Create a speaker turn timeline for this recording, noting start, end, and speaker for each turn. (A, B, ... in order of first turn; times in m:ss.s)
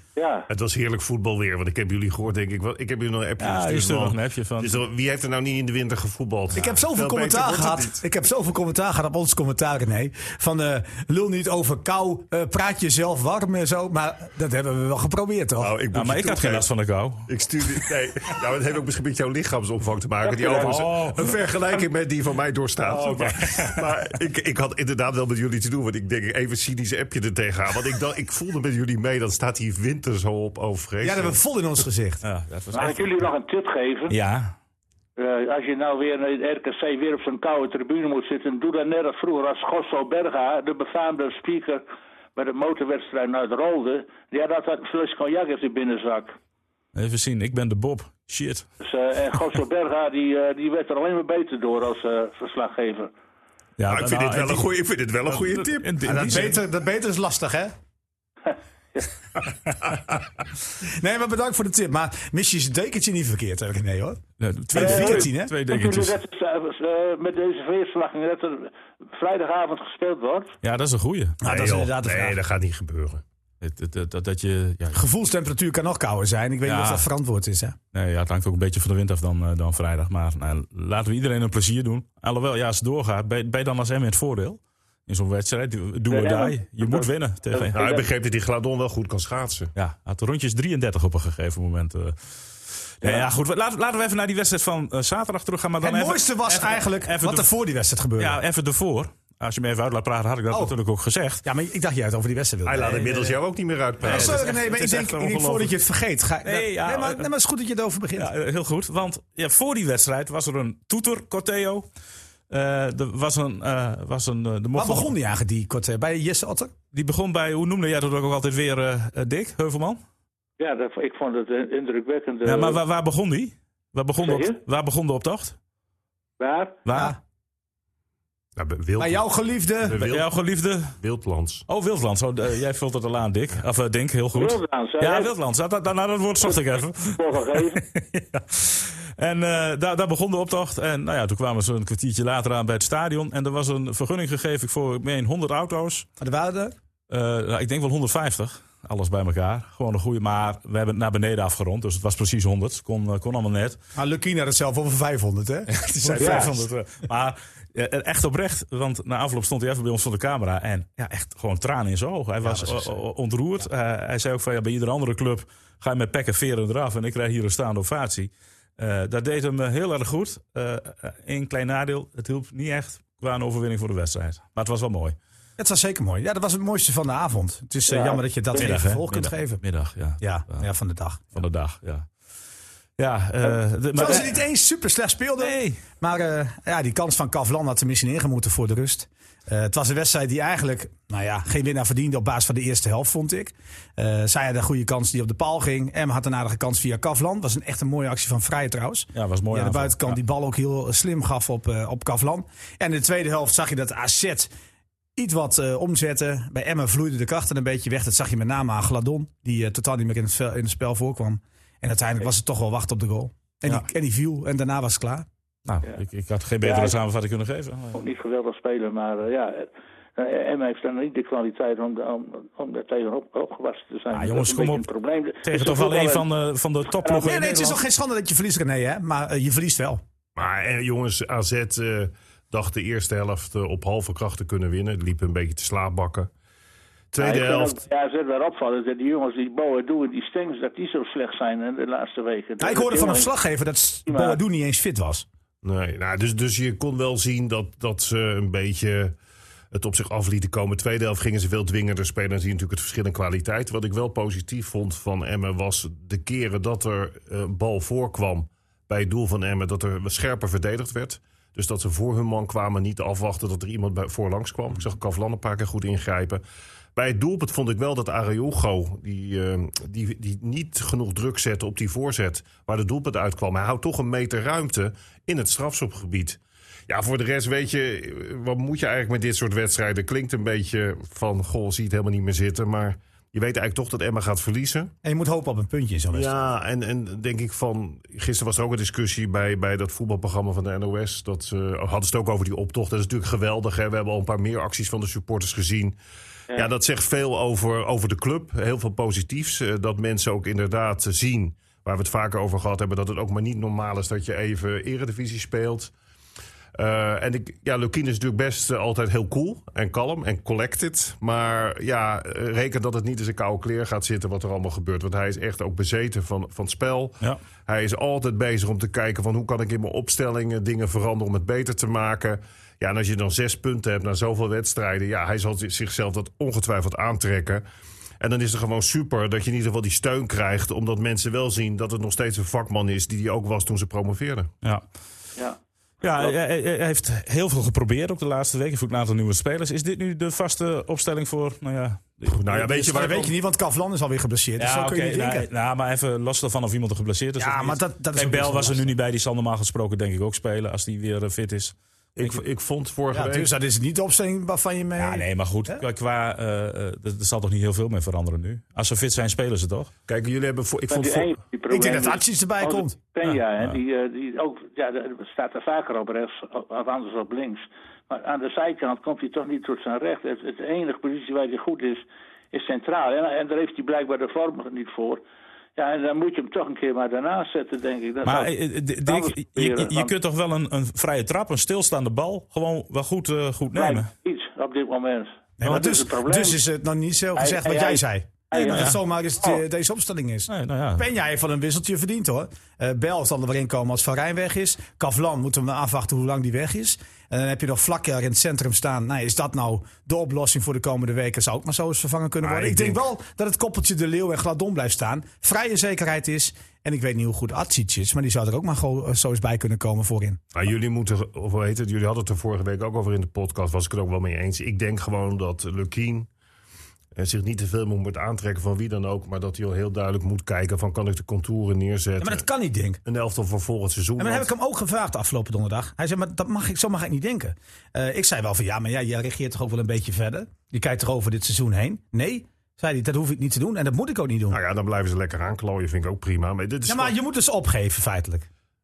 0:00.2-0:00.5 A
0:00.5-0:08.0 B
0:03.4-0:04.8 C
0:06.5-0:15.8 D
0:15.6-0:16.6 B
0:15.9-0:17.8 C
0:17.3-0:31.4 B
0:20.3-0:21.5 C
0:20.4-0:20.7 A
0:22.8-0:24.0 C
0:31.0-0:32.2 D
0:32.2-0:33.0 C
0:32.7-0:34.2 A
0:34.1-0:34.5 C
0:35.2-0:41.8 A
0:42.4-0:46.4 A
0:46.9-0:48.7 C
0:48.8-0:53.1 A
0:53.8-0:54.7 C
0:53.9-0:55.9 B
0:55.2-0:56.6 C
0:56.0-0:57.7 D
1:00.8-1:04.2 D
1:04.4-1:06.1 C
1:04.7-1:05.5 D
1:04.8-1:10.6 A
1:10.6-1:11.4 C
1:11.4-1:12.4 D
1:11.4-1:13.2 B
1:13.6-1:15.0 C
1:14.9-1:17.8 D
1:16.6-1:17.1 C
1:17.9-1:27.8 C
1:26.1-1:28.0 A
1:27.6-1:29.7 B
1:29.8-1:37.5 C
1:35.8-1:38.4 D
1:38.2-1:41.4 C
1:41.4-1:43.3 D
1:42.6-1:44.5 B
1:44.0-1:45.7 C
1:44.0-1:48.3 D
1:46.4-1:47.2 C
1:48.2-1:51.8 C
1:52.5-1:55.1 C
1:54.7-1:56.7 D
1:56.9-2:00.0 C
2:00.6-2:02.8 A
2:02.4-2:05.6 C
2:04.2-2:04.6 A
2:06.4-2:06.8 A
2:06.8-2:07.1 C
2:06.9-2:07.2 D
2:08.6-2:09.2 B
2:09.0-2:10.0 D
2:09.8-2:10.3 B
2:09.9-2:11.0 C
2:11.0-2:11.6 B
2:11.7-2:26.0 C
2:14.3-2:15.3 A
2:16.4-2:17.8 A
2:26.2-2:26.7 D
2:27.1-2:33.8 C
2:33.9-2:36.6 D
2:35.7-2:55.2 C
2:36.2-2:36.5 A
2:42.4-2:43.0 D
2:55.6-2:59.6 D
2:57.9-2:58.2 A
2:58.5-3:00.6 C
3:00.2-3:01.4 D
3:01.3-3:02.1 C
3:03.0-3:04.4 C
3:03.9-3:24.5 D
3:05.4-3:05.8 C
3:19.1-3:20.2 C
3:25.2-3:35.3 D
3:35.6-3:38.0 C
3:36.6-3:37.0 A
3:37.9-3:46.2 A
3:44.1-3:44.8 C
3:45.4-3:47.8 C
3:46.9-3:47.3 A
3:47.2-3:50.0 D
3:50.4-3:56.3 B
3:57.1-3:57.8 B
3:57.2-4:03.3 A
4:02.6-4:05.2 D
4:04.1-4:04.4 A
4:05.6-4:09.2 B
4:09.7-4:26.4 B
4:27.0-4:44.9 B
4:45.0-4:46.4 D
4:46.1-4:56.0 B
4:56.5-5:05.9 B
5:06.8-5:27.6 B
5:28.2-5:34.5 B
5:36.0-5:43.2 C
5:42.3-5:43.3 B
5:42.7-5:45.5 D
5:44.6-5:52.4 C
5:47.4-5:48.9 D
5:52.2-5:53.5 B
5:53.1-5:55.8 D
5:55.0-5:59.9 C
6:00.1-6:01.3 B
6:00.9-6:15.2 A
6:01.7-6:03.0 D
6:15.8-6:20.1 A
6:18.2-6:24.1 C
6:23.7-6:26.6 A
6:25.6-6:50.4 D
6:27.3-6:29.6 A
6:28.6-6:29.0 C
6:30.5-6:31.0 C
6:42.4-6:43.0 B
6:50.5-6:56.3 B
6:57.1-7:02.4 B
7:02.2-7:03.0 D
7:03.0-7:04.5 B
7:04.2-7:14.6 D
7:14.5-7:17.1 B
7:16.8-7:18.5 D